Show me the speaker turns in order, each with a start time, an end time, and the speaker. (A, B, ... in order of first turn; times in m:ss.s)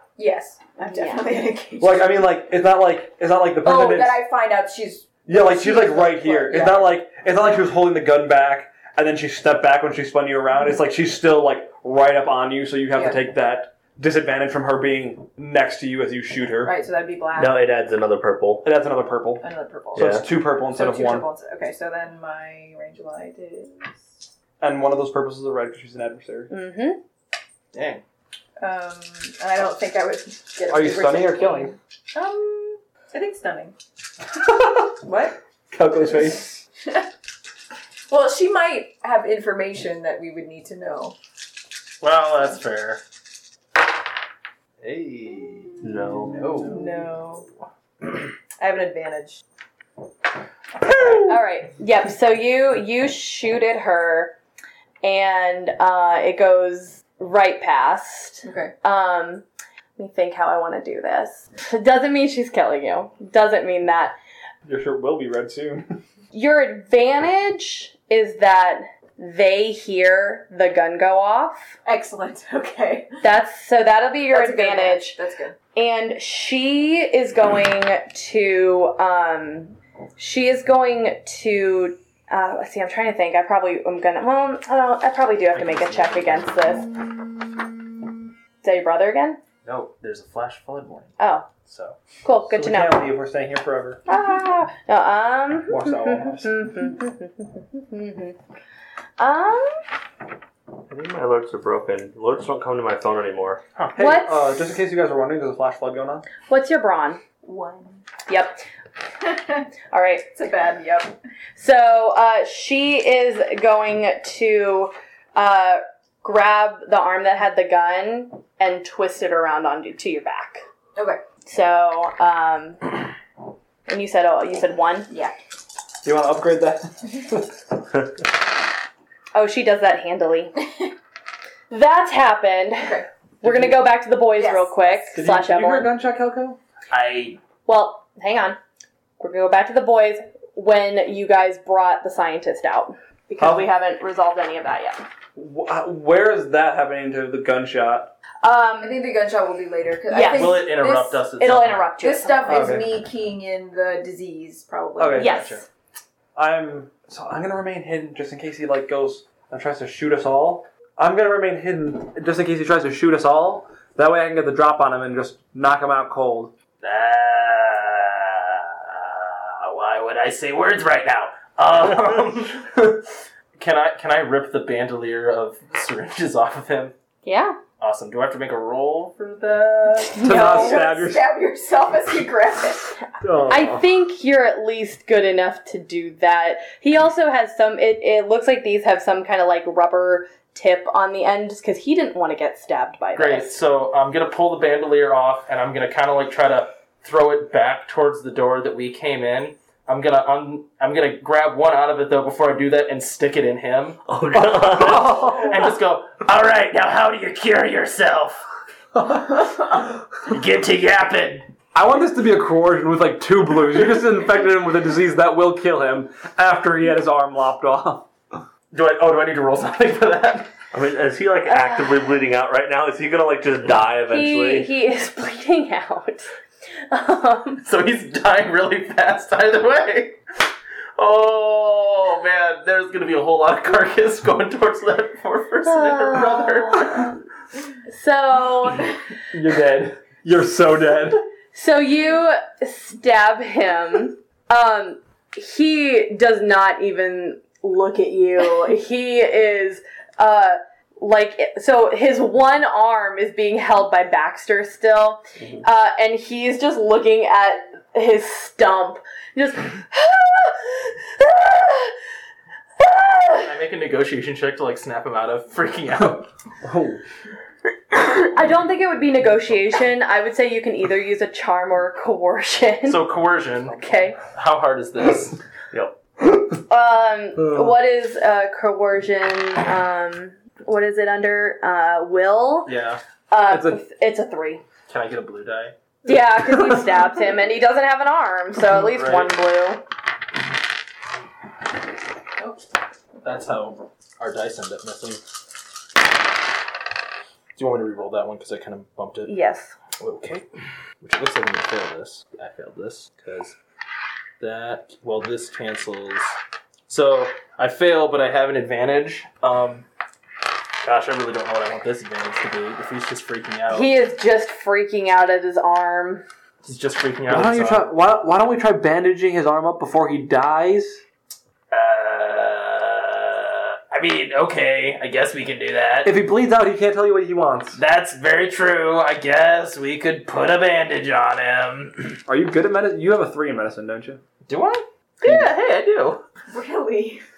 0:00.2-0:02.2 A
0:00.8-0:01.4 B
0:01.8-0:04.2 C
0:03.6-0:06.9 A
0:05.3-0:16.7 C
0:12.9-0:13.2 A
0:16.6-0:17.7 A
0:17.4-0:18.7 D
0:18.6-0:21.3 C
0:19.4-0:24.2 A
0:20.0-0:20.3 D
0:24.6-0:26.5 C
0:26.5-0:27.0 B
0:27.7-0:28.0 E
0:28.6-0:33.8 A
0:30.7-0:31.7 C
0:34.5-0:34.9 C
0:35.0-0:35.4 A
0:35.7-0:36.6 C
0:38.1-0:41.2 A
0:42.0-0:43.0 E
0:44.8-0:46.9 E
0:45.8-0:46.4 D
0:46.6-0:47.4 A
0:48.6-0:49.4 A
0:50.9-0:51.3 A
0:51.2-0:54.4 B
0:55.0-0:59.4 B
0:58.4-0:58.7 A
1:00.0-1:04.2 B
1:04.6-1:06.0 C
1:06.3-1:11.8 B
1:11.8-1:13.2 A
1:13.2-1:15.2 B
1:14.3-1:15.6 A
1:15.8-1:26.9 B
1:25.5-1:26.5 E
1:28.6-1:29.4 B
1:29.6-1:32.0 E
1:31.2-1:31.5 B
1:32.2-1:33.1 B
1:32.5-1:34.0 C
1:34.1-1:38.4 B
1:35.7-1:36.6 C
1:39.2-1:39.8 B
1:40.9-1:43.6 D
1:44.0-1:46.3 C
1:44.0-1:44.6 B
1:46.5-1:47.2 B
1:47.4-1:48.0 A
1:48.3-1:48.6 B
1:49.2-1:49.6 A
1:49.9-1:50.3 B
1:50.3-1:51.2 A
1:51.6-2:00.6 B
2:01.0-2:01.2 A
2:01.5-2:03.0 B
2:03.9-2:05.1 B
2:06.0-2:07.6 C
2:09.3-2:10.6 B
2:11.7-2:15.9 B
2:12.8-2:13.1 A
2:13.4-2:13.9 C
2:14.4-2:14.8 A
2:15.1-2:16.6 C
2:16.9-2:17.4 E
2:17.7-2:18.6 B
2:19.2-2:25.0 B
2:23.4-2:23.7 C
2:25.4-2:28.1 C
2:28.4-2:29.0 B
2:28.8-2:31.2 A
2:30.1-2:30.7 B
2:30.3-2:31.9 E
2:31.4-2:32.4 B
2:32.0-2:35.4 A
2:32.4-2:32.9 C
2:35.0-2:35.3 C
2:35.2-2:35.6 B
2:35.2-2:35.6 E
2:36.4-2:46.5 C
2:46.8-2:53.1 E
2:53.6-2:56.9 E
2:57.2-2:57.6 B
2:57.8-3:00.2 E
3:00.2-3:00.8 B
3:00.2-3:01.2 C
3:00.2-3:03.0 A
3:03.2-3:03.8 C
3:03.5-3:13.6 B
3:13.2-3:24.0 E
3:24.1-3:25.3 D
3:24.3-3:25.6 C
3:24.7-3:28.4 E
3:29.0-3:29.6 C
3:30.2-3:31.4 E
3:31.7-3:38.1 C
3:38.7-3:40.5 E
3:40.7-3:44.7 D
3:41.5-3:41.9 B
3:44.1-3:46.3 B
3:46.9-3:47.6 B
3:47.6-3:50.2 E
3:51.0-3:57.1 E
3:55.6-3:57.2 B
3:57.9-3:59.0 B
3:59.3-4:01.2 C
4:01.5-4:22.0 B
4:22.8-4:23.5 B
4:23.4-4:26.3 E
4:26.0-4:27.0 C
4:28.3-4:33.0 B
4:32.9-4:35.4 E
4:33.7-4:34.2 B
4:36.7-4:42.7 B
4:37.4-4:37.7 C
4:42.7-4:43.0 E
4:43.3-4:44.6 B
4:43.5-4:43.8 C
4:44.9-4:45.7 E
4:46.0-4:49.8 B
4:46.5-4:46.9 C
4:48.7-4:49.4 E
4:53.2-4:55.2 E
4:57.6-4:59.3 E
4:59.3-4:59.7 B
5:00.0-5:00.4 E
5:01.0-5:03.6 E
5:04.4-5:06.3 E
5:06.9-5:09.9 E
5:10.8-5:13.9 E
5:13.7-5:16.2 B
5:16.6-5:17.9 E
5:17.3-5:21.0 C
5:21.7-5:26.2 E
5:26.0-5:27.8 C
5:27.8-5:32.2 E
5:32.3-5:34.2 C
5:34.5-5:36.2 E
5:36.5-5:37.2 A